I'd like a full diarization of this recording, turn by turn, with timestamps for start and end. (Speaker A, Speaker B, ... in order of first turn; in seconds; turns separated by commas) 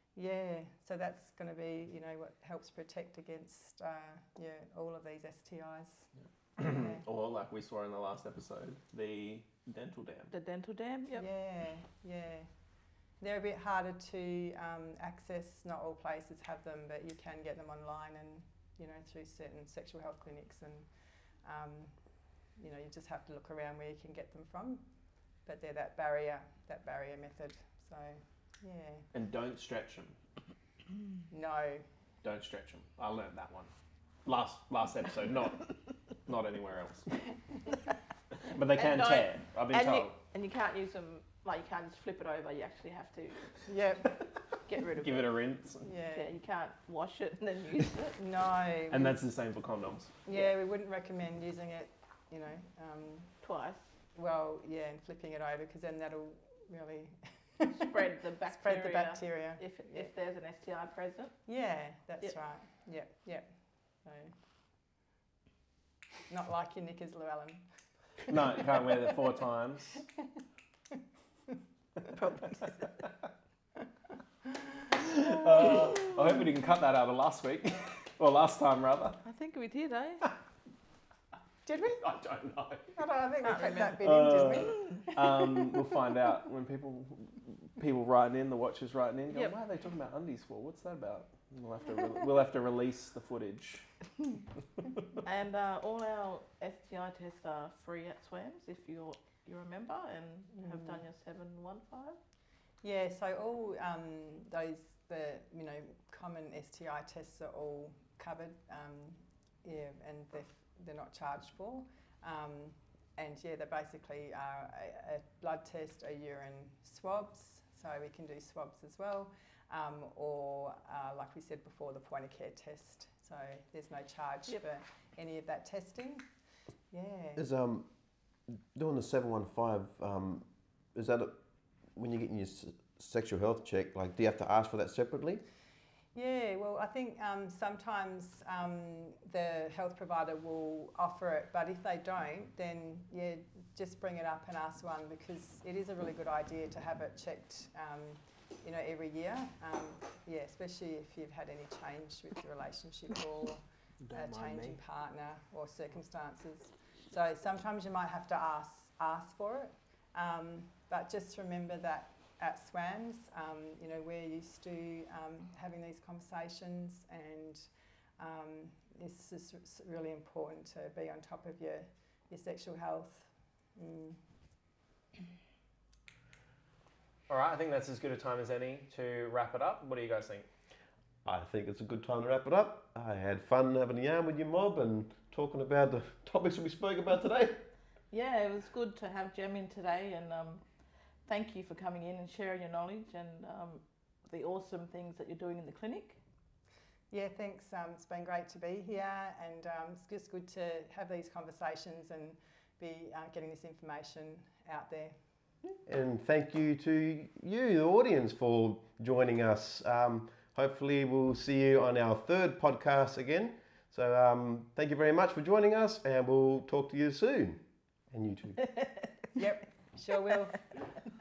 Speaker A: 0.1-6.1, Speaker B: 6.6-10.3, Speaker A: 6.6-7.0, Speaker C: 10.3-11.3, Speaker A: 11.1-12.5, Speaker A: 13.2-20.9, Speaker A: 21.4-22.0, Speaker A: 22.6-24.8, Speaker A: 25.4-29.1, Speaker B: 29.1-30.1, Speaker A: 31.3-31.9, Speaker B: 32.2-33.7, Speaker B: 34.2-37.1, Speaker B: 38.4-40.1, Speaker C: 38.8-43.5, Speaker A: 43.7-44.2, Speaker C: 44.6-45.4, Speaker B: 44.9-45.9, Speaker A: 45.8-46.3, Speaker C: 46.0-48.2, Speaker A: 48.2-49.1, Speaker B: 48.9-50.2, Speaker A: 50.2-53.3, Speaker C: 53.4-53.8, Speaker A: 54.1-60.1, Speaker C: 57.7-61.4, Speaker A: 61.5-63.5, Speaker A: 64.0-64.3, Speaker A: 66.3-67.6, Speaker B: 68.3-70.0, Speaker C: 72.0-72.9, Speaker B: 75.0-79.2, Speaker C: 79.2-80.2, Speaker A: 81.7-82.0, Speaker B: 81.9-83.0, Speaker A: 82.9-85.6, Speaker C: 83.5-84.0, Speaker B: 83.8-93.8, Speaker C: 84.5-85.0, Speaker C: 95.2-102.2, Speaker A: 100.6-101.0, Speaker A: 102.8-126.2, Speaker A: 126.9-127.4, Speaker D: 127.3-127.9, Speaker D: 128.7-131.4, Speaker D: 131.9-135.4, Speaker A: 136.1-174.2, Speaker B: 154.1-154.8, Speaker B: 177.3-180.5, Speaker D: 181.2-187.6, Speaker C: 188.1-190.6, Speaker C: 191.3-196.2, Speaker A: 197.1-205.2, Speaker D: 205.8-218.7, Speaker A: 219.3-220.6